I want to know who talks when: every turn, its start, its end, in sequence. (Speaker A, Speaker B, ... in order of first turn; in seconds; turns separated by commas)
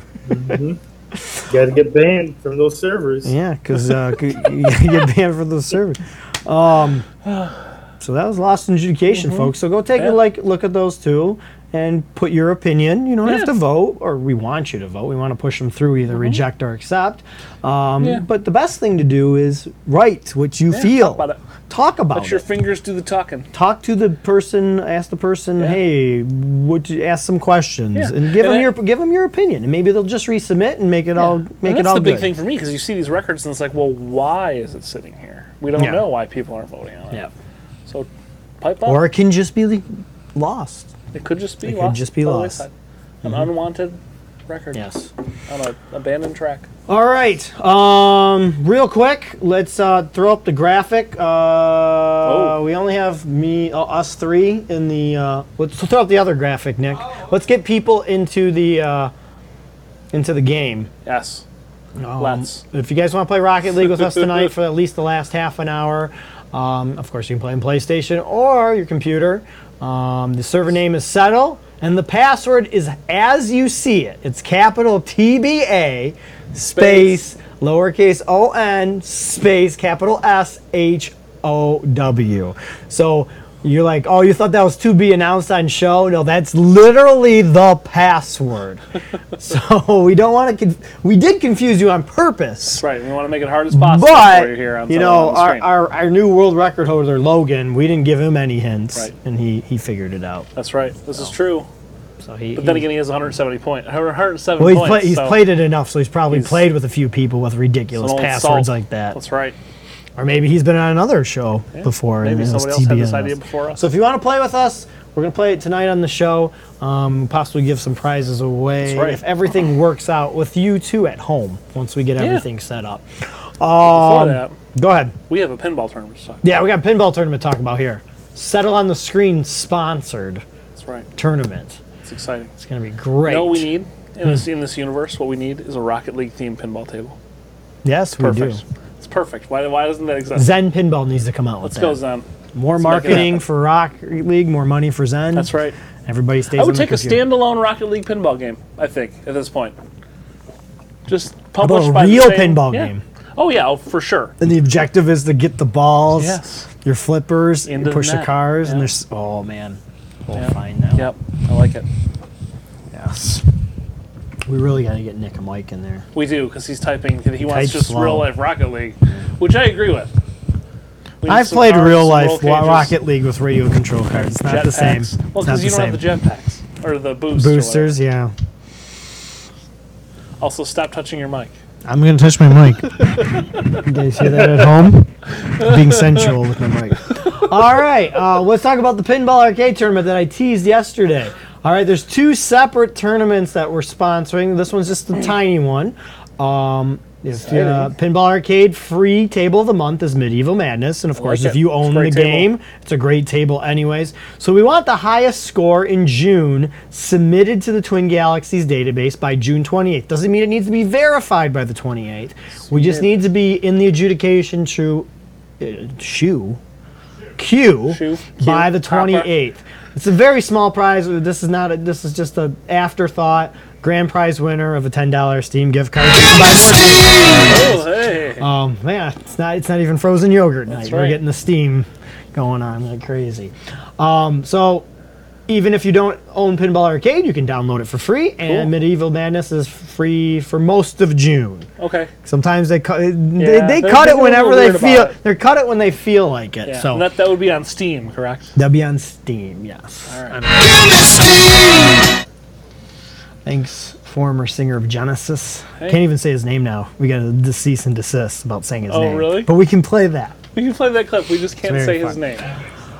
Speaker A: 0.3-0.8, Speaker B: 1.2-1.4, Speaker A: 1.5-3.3, Speaker B: 3.2-7.1, Speaker C: 7.2-7.5, Speaker B: 8.0-22.4, Speaker C: 9.1-10.2, Speaker C: 13.2-13.5, Speaker C: 16.1-16.4, Speaker C: 20.7-21.4, Speaker C: 22.1-23.5, Speaker B: 23.5-32.3, Speaker C: 27.9-28.7, Speaker C: 31.2-37.2, Speaker B: 35.8-36.0, Speaker C: 38.6-39.0, Speaker B: 38.8-40.9, Speaker C: 41.1-42.7, Speaker B: 41.6-42.6, Speaker C: 43.2-44.8, Speaker B: 43.2-43.5, Speaker B: 44.7-45.1, Speaker C: 45.5-46.7, Speaker B: 46.9-59.1, Speaker C: 52.2-52.6, Speaker B: 60.1-60.9, Speaker C: 61.0-61.4, Speaker B: 62.0-88.8, Speaker C: 62.2-62.6, Speaker C: 76.7-77.2, Speaker B: 89.3-92.8, Speaker C: 92.7-95.7, Speaker B: 93.7-100.5, Speaker C: 100.5-101.7, Speaker B: 102.2-102.9, Speaker C: 102.5-105.4, Speaker B: 104.6-109.2, Speaker C: 106.3-106.6, Speaker C: 108.0-109.5, Speaker B: 110.2-125.1, Speaker C: 111.7-113.8, Speaker C: 118.8-119.2, Speaker C: 122.2-122.4, Speaker C: 123.8-124.5, Speaker C: 125.3-126.5, Speaker B: 126.4-130.4, Speaker C: 130.8-131.1, Speaker B: 131.2-131.8, Speaker C: 132.0-132.5, Speaker B: 132.6-133.7, Speaker C: 133.2-137.2, Speaker B: 137.8-138.6, Speaker C: 138.2-140.5, Speaker B: 140.3-142.0, Speaker C: 141.6-142.3, Speaker B: 142.5-145.5, Speaker C: 142.8-143.4, Speaker C: 145.3-145.7, Speaker B: 146.1-147.2, Speaker C: 146.5-149.8, Speaker C: 151.1-154.3, Speaker B: 151.6-153.0, Speaker B: 154.4-161.1, Speaker C: 156.1-156.7, Speaker C: 157.7-158.9, Speaker C: 160.3-161.9, Speaker B: 162.9-163.4, Speaker B: 164.5-166.1, Speaker C: 166.1-170.1, Speaker B: 167.5-168.3, Speaker C: 171.2-172.9, Speaker B: 171.2-176.0, Speaker C: 174.2-177.9, Speaker B: 177.3-178.3, Speaker C: 180.4-181.5, Speaker B: 181.8-183.1, Speaker C: 183.0-183.8, Speaker B: 183.8-215.1, Speaker C: 185.6-186.3, Speaker C: 197.5-197.9, Speaker C: 201.2-202.5, Speaker C: 212.7-213.2, Speaker B: 215.6-216.6, Speaker B: 217.4-234.8, Speaker C: 217.9-219.3, Speaker C: 227.5-228.4, Speaker C: 230.7-231.2, Speaker B: 235.5-241.7, Speaker C: 238.5-238.7, Speaker C: 241.8-242.1, Speaker B: 242.2-247.0, Speaker C: 243.4-245.1, Speaker C: 246.7-248.5, Speaker B: 248.6-251.7, Speaker C: 250.1-250.4, Speaker B: 253.4-260.4, Speaker C: 258.9-259.5, Speaker C: 260.5-262.5, Speaker B: 261.6-262.2